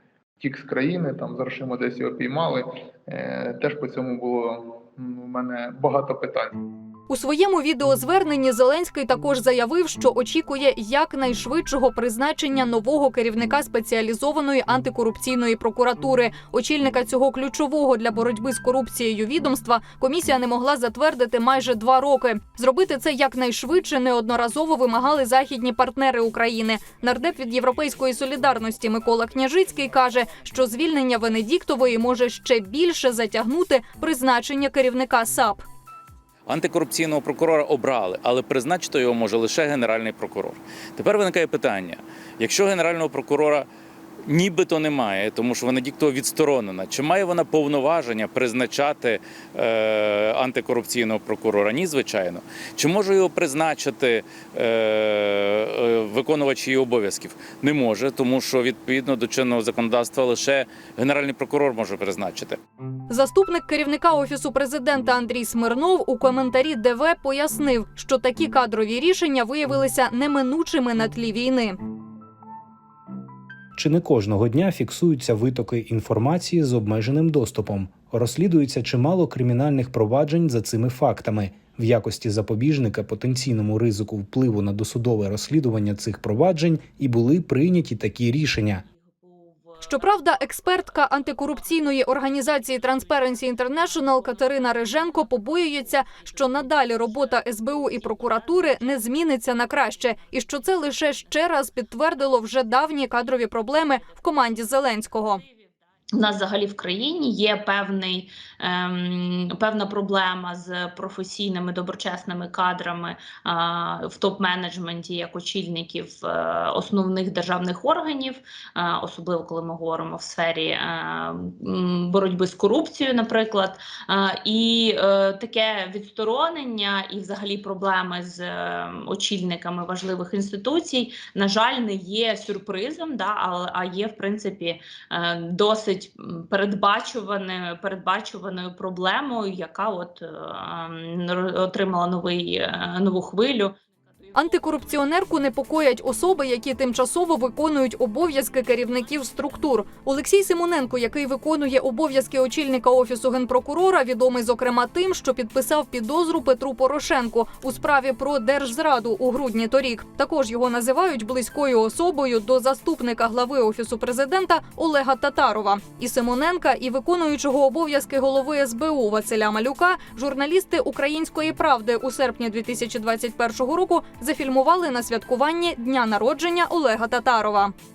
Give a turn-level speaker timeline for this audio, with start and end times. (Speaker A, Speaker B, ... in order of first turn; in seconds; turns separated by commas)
Speaker A: 0.4-6.6, Speaker B: 7.1-35.6, Speaker C: 36.5-43.7, Speaker C: 44.3-62.6, Speaker B: 63.1-71.8, Speaker D: 73.8-88.8, Speaker B: 89.8-105.4, Speaker E: 106.2-143.8, Speaker B: 144.3-177.7